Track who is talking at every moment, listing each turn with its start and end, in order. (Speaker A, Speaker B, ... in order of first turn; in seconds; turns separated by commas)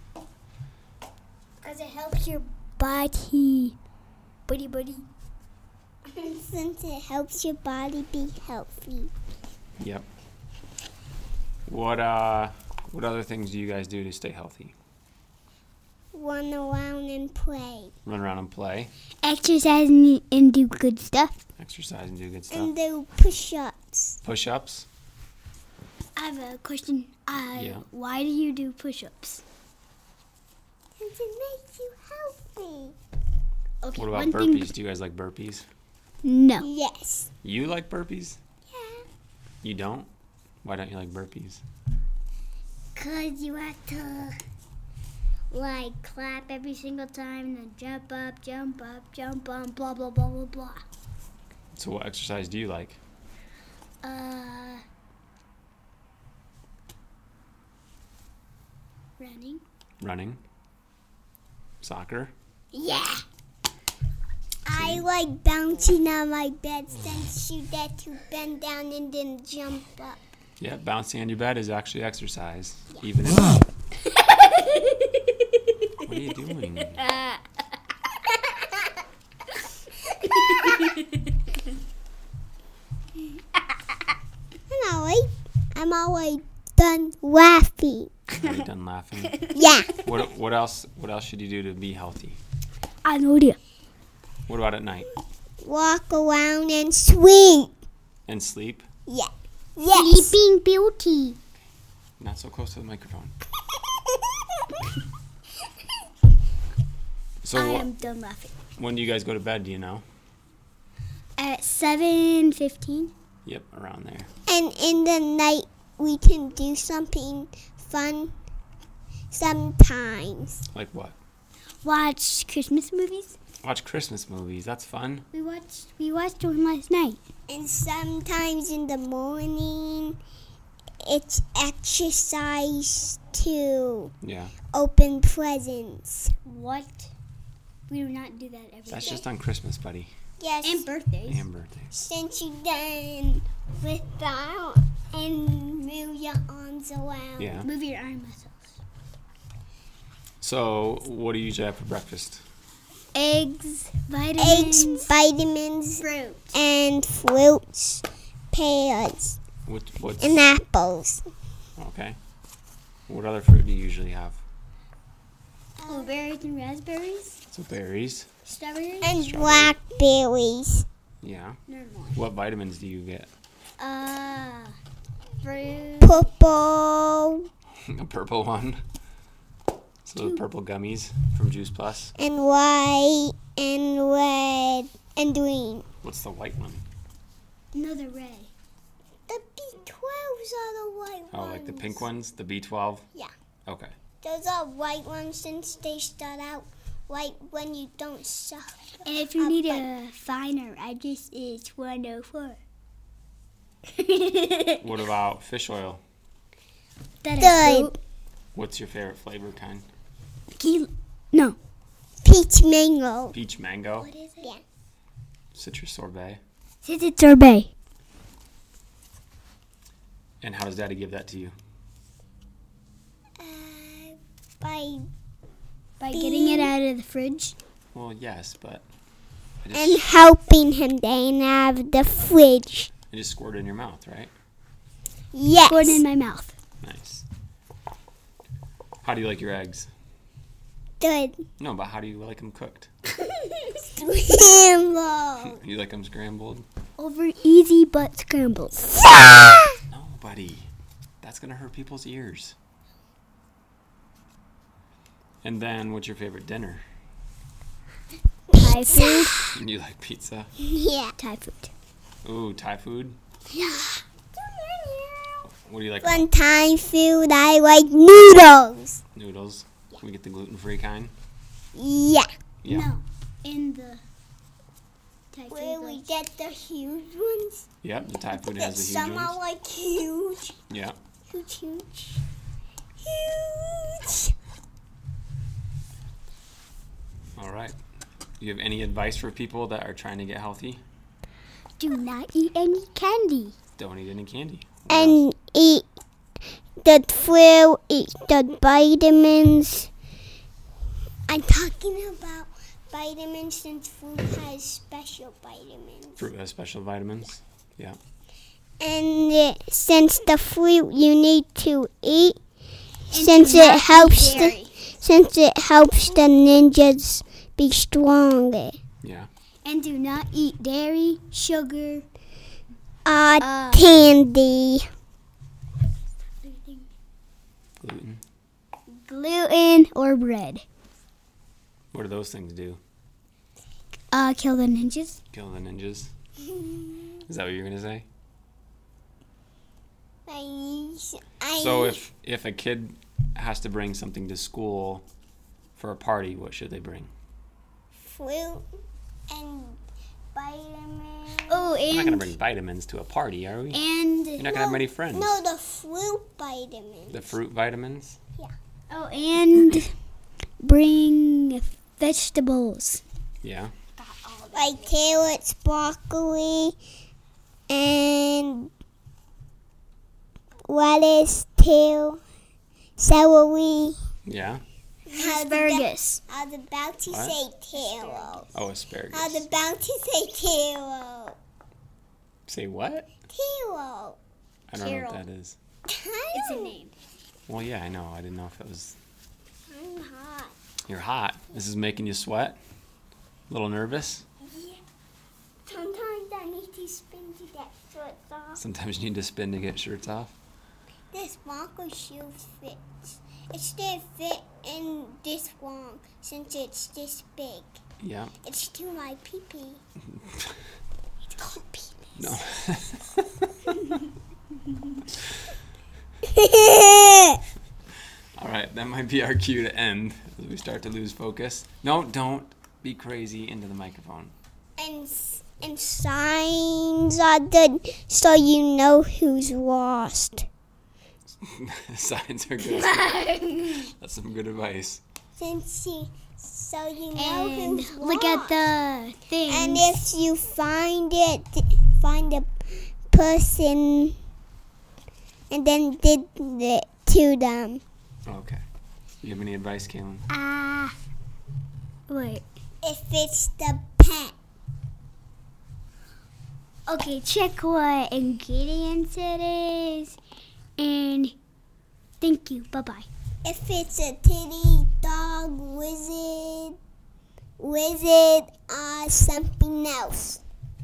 Speaker A: 1.6-3.8, Speaker A: 4.5-5.0, Speaker B: 6.2-9.1, Speaker C: 9.8-10.1, Speaker C: 11.7-14.7, Speaker B: 16.1-17.9, Speaker C: 18.1-18.9, Speaker A: 19.2-21.4, Speaker C: 21.6-22.7, Speaker B: 22.5-24.2, Speaker C: 24.2-24.9, Speaker A: 26.1-29.4, Speaker C: 27.5-27.8, Speaker B: 31.0-33.0, Speaker A: 33.8-34.7, Speaker C: 33.9-35.6, Speaker A: 36.2-36.7, Speaker B: 36.6-37.3, Speaker C: 37.4-38.4, Speaker B: 38.7-39.0, Speaker C: 39.6-40.1, Speaker C: 40.6-41.6, Speaker A: 43.0-44.3, Speaker A: 45.5-50.8, Speaker C: 51.7-53.0, Speaker A: 54.0-54.8, Speaker A: 59.2-59.6, Speaker C: 60.0-60.4, Speaker C: 61.8-62.3, Speaker B: 62.7-63.2, Speaker B: 64.7-70.2, Speaker C: 64.7-65.0, Speaker C: 70.6-73.6, Speaker A: 74.1-75.2, Speaker C: 76.0-77.0, Speaker A: 77.0-77.4, Speaker A: 80.2-81.2, Speaker B: 84.7-88.1, Speaker C: 88.4-89.4, Speaker A: 89.3-89.6, Speaker B: 89.5-89.9, Speaker C: 90.0-92.4, Speaker A: 93.0-93.6, Speaker C: 94.5-95.1, Speaker B: 95.6-97.7, Speaker C: 98.3-98.8, Speaker B: 99.1-100.3, Speaker A: 99.9-101.4, Speaker C: 102.2-103.3, Speaker C: 107.4-107.9, Speaker A: 107.5-108.5, Speaker C: 108.8-110.0, Speaker A: 111.4-113.1, Speaker C: 113.4-114.3, Speaker B: 114.5-118.3, Speaker B: 119.3-120.6, Speaker C: 120.7-121.2, Speaker A: 121.8-123.4, Speaker C: 123.6-125.2, Speaker A: 125.3-127.2, Speaker B: 127.5-130.2, Speaker B: 131.0-134.1, Speaker C: 134.2-134.5, Speaker B: 134.7-136.3, Speaker A: 136.4-137.1, Speaker A: 137.9-139.2, Speaker C: 138.9-140.1, Speaker B: 140.4-140.8, Speaker A: 140.6-141.4, Speaker C: 141.2-141.9, Speaker B: 141.9-147.6, Speaker C: 147.4-147.7, Speaker A: 147.6-148.8, Speaker C: 150.4-152.4, Speaker A: 153.1-155.1, Speaker B: 154.4-159.4, Speaker A: 156.0-156.5, Speaker C: 159.7-160.4, Speaker B: 160.2-161.2, Speaker C: 161.8-162.2, Speaker C: 163.1-164.4, Speaker B: 165.8-166.1, Speaker A: 165.8-167.4, Speaker C: 167.5-168.3, Speaker A: 168.4-169.3, Speaker B: 169.0-170.8, Speaker C: 169.2-169.7, Speaker C: 171.2-171.6, Speaker A: 171.7-172.2, Speaker C: 172.1-173.3, Speaker A: 173.8-174.8, Speaker A: 175.4-176.3, Speaker B: 176.0-177.5, Speaker C: 177.9-178.8, Speaker C: 180.0-182.1, Speaker A: 180.2-180.4, Speaker B: 182.2-185.8, Speaker C: 186.0-186.8, Speaker A: 187.7-188.5, Speaker B: 189.3-192.1, Speaker C: 191.3-193.1, Speaker C: 193.7-193.9, Speaker B: 194.2-199.9, Speaker A: 199.0-202.6, Speaker A: 203.9-204.8, Speaker C: 204.8-206.0, Speaker A: 207.2-207.9, Speaker B: 207.4-207.9, Speaker C: 208.5-209.8, Speaker A: 210.5-211.6, Speaker B: 212.2-213.3, Speaker C: 213.3-214.1, Speaker A: 214.0-214.5, Speaker C: 215.5-216.4, Speaker A: 216.8-217.7, Speaker C: 220.4-221.5, Speaker B: 223.4-225.1, Speaker A: 226.0-227.5, Speaker B: 226.1-226.7, Speaker C: 227.9-228.8, Speaker C: 229.6-230.0, Speaker B: 229.7-232.9, Speaker C: 233.1-234.3, Speaker B: 235.3-236.0, Speaker A: 235.7-236.5, Speaker C: 236.8-237.2, Speaker C: 239.0-239.9, Speaker B: 241.0-241.4, Speaker C: 241.6-242.9, Speaker B: 243.8-245.6, Speaker C: 245.4-246.6, Speaker A: 247.0-249.0, Speaker C: 249.9-250.7, Speaker C: 251.2-252.6, Speaker C: 255.4-256.8, Speaker A: 258.5-259.3, Speaker B: 258.5-259.5, Speaker C: 259.5-260.5, Speaker B: 260.6-261.1, Speaker A: 261.2-261.7, Speaker C: 262.2-263.2, Speaker B: 263.5-265.5, Speaker C: 265.5-266.3, Speaker B: 266.0-269.0, Speaker C: 269.1-271.1, Speaker B: 271.7-272.3, Speaker C: 272.6-272.9, Speaker A: 272.7-274.0, Speaker A: 275.3-276.1, Speaker B: 275.5-277.7, Speaker C: 277.8-279.4, Speaker B: 278.3-280.6, Speaker C: 280.7-281.0, Speaker B: 281.3-282.2, Speaker B: 283.0-284.3, Speaker C: 287.4-287.7, Speaker C: 288.4-290.8, Speaker A: 291.8-293.5, Speaker C: 293.8-295.2, Speaker B: 294.9-295.9, Speaker B: 296.8-299.9, Speaker B: 301.3-306.2, Speaker C: 306.1-308.0, Speaker B: 308.8-312.4, Speaker A: 313.1-314.8, Speaker B: 313.1-318.8, Speaker C: 319.0-319.3, Speaker A: 319.6-322.1, Speaker B: 323.0-324.8, Speaker A: 323.4-323.9, Speaker A: 326.4-326.9, Speaker C: 327.8-328.2, Speaker A: 328.9-330.6, Speaker C: 331.9-332.8, Speaker A: 334.1-335.2, Speaker C: 335.3-336.1, Speaker B: 336.4-337.1, Speaker C: 337.2-338.1, Speaker B: 340.2-342.0, Speaker C: 341.6-345.0, Speaker C: 345.8-347.1, Speaker B: 347.9-348.7, Speaker B: 349.3-349.8, Speaker B: 350.3-351.8, Speaker A: 351.5-352.3, Speaker C: 351.9-353.8, Speaker A: 353.7-354.5, Speaker C: 354.4-355.4, Speaker B: 354.5-357.3, Speaker C: 357.1-358.2, Speaker A: 358.9-359.9, Speaker A: 360.6-363.0, Speaker C: 363.4-363.7, Speaker A: 364.0-364.9, Speaker B: 364.5-366.8, Speaker B: 367.7-368.7, Speaker B: 370.6-372.2, Speaker B: 373.0-374.0, Speaker C: 374.2-374.6, Speaker B: 375.1-378.5, Speaker A: 375.1-376.2, Speaker C: 377.1-377.4, Speaker A: 377.7-378.4, Speaker C: 378.5-379.5, Speaker B: 379.1-381.4, Speaker C: 382.5-383.1, Speaker B: 383.3-384.2, Speaker C: 384.7-385.6, Speaker A: 384.7-385.2, Speaker B: 385.9-386.7, Speaker A: 386.3-386.9, Speaker C: 387.5-389.0, Speaker B: 389.7-390.5, Speaker C: 390.9-392.6, Speaker C: 393.5-394.2, Speaker B: 394.4-394.8, Speaker B: 395.6-398.6, Speaker C: 398.6-400.3, Speaker B: 401.1-407.8, Speaker C: 408.0-408.3, Speaker B: 408.4-409.8, Speaker A: 411.4-412.3, Speaker C: 412.1-413.2, Speaker B: 416.3-417.4, Speaker C: 418.4-424.3, Speaker B: 424.8-430.5, Speaker C: 431.4-435.0, Speaker A: 432.7-433.8, Speaker B: 435.4-438.6, Speaker A: 437.1-439.9, Speaker B: 439.5-444.1, Speaker B: 445.5-447.8, Speaker C: 448.2-448.6, Speaker C: 449.2-450.2, Speaker A: 450.3-450.9, Speaker A: 452.1-452.4, Speaker B: 452.8-454.3, Speaker A: 456.9-460.2, Speaker A: 460.8-461.3, Speaker A: 462.2-463.1, Speaker B: 463.4-466.8, Speaker B: 467.6-470.4